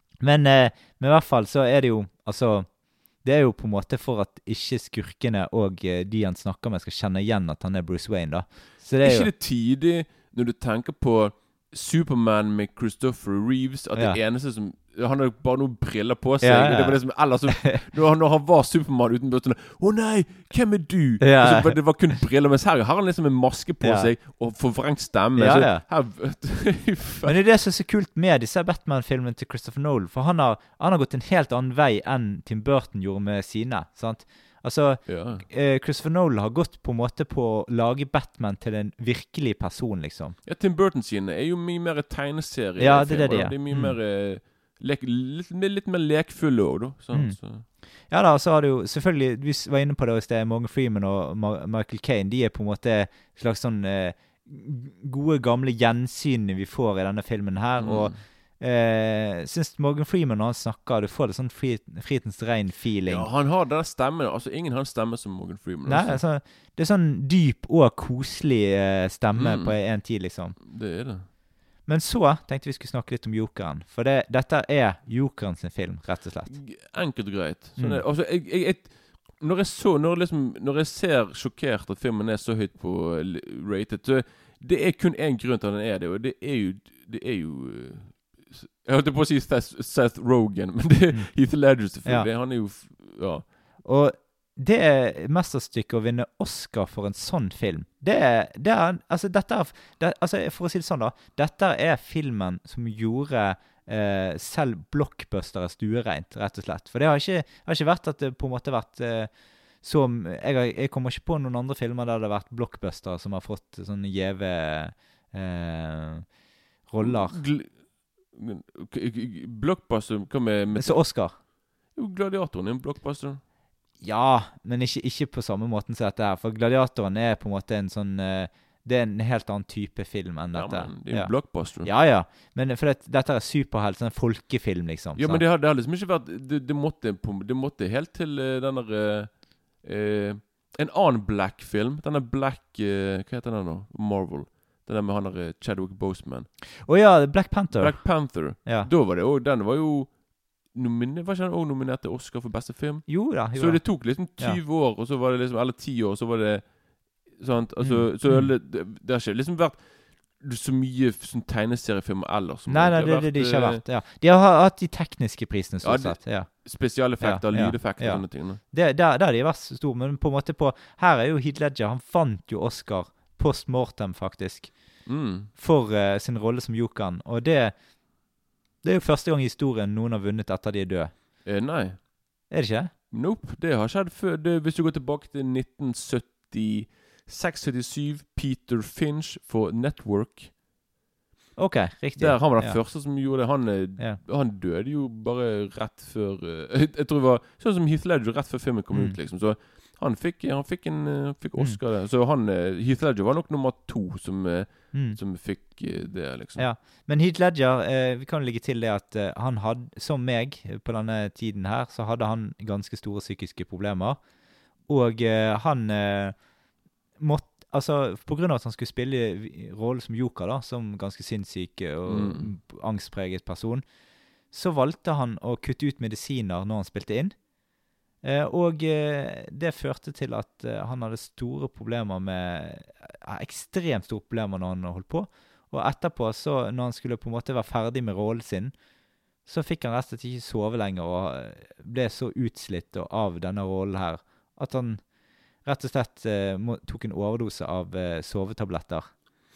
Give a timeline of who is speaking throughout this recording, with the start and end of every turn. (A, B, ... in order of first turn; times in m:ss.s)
0:00.2-0:09.3 A
0:09.0-0:27.4 B
0:16.4-0:17.8 A
0:21.2-0:22.2 A
0:23.8-0:24.1 A
0:25.4-0:25.8 A
0:27.2-0:40.4 A
0:35.1-0:35.5 B
0:40.4-0:47.7 B
0:42.8-0:44.0 A
0:47.1-1:03.3 A
0:57.8-0:58.2 B
1:03.1-1:06.2 B
1:05.9-1:10.6 A
1:09.4-1:10.0 B
1:10.6-1:11.3 B
1:11.8-1:16.6 A
1:16.5-1:33.5 B
1:17.8-1:18.0 A
1:33.8-1:57.4 A
1:57.0-2:03.4 B
2:00.8-2:01.4 A
2:04.0-2:15.4 A
2:10.5-2:11.9 B
2:15.2-2:26.5 B
2:26.8-2:28.9 A
2:27.7-2:43.8 B
2:33.1-2:34.6 A
2:37.8-2:38.5 A
2:42.7-2:57.9 A
2:45.8-2:48.6 B
2:55.1-2:55.5 B
2:58.8-3:01.3 A
3:01.4-3:02.1 B
3:02.5-3:02.9 A
3:03.1-3:10.6 B
3:11.6-3:12.8 A
3:12.2-3:26.7 B
3:18.9-3:19.2 A
3:24.9-3:25.2 A
3:26.6-3:36.5 A
3:37.2-3:47.6 A
3:42.1-3:42.5 B
3:48.2-3:58.9 A
3:59.4-4:09.1 A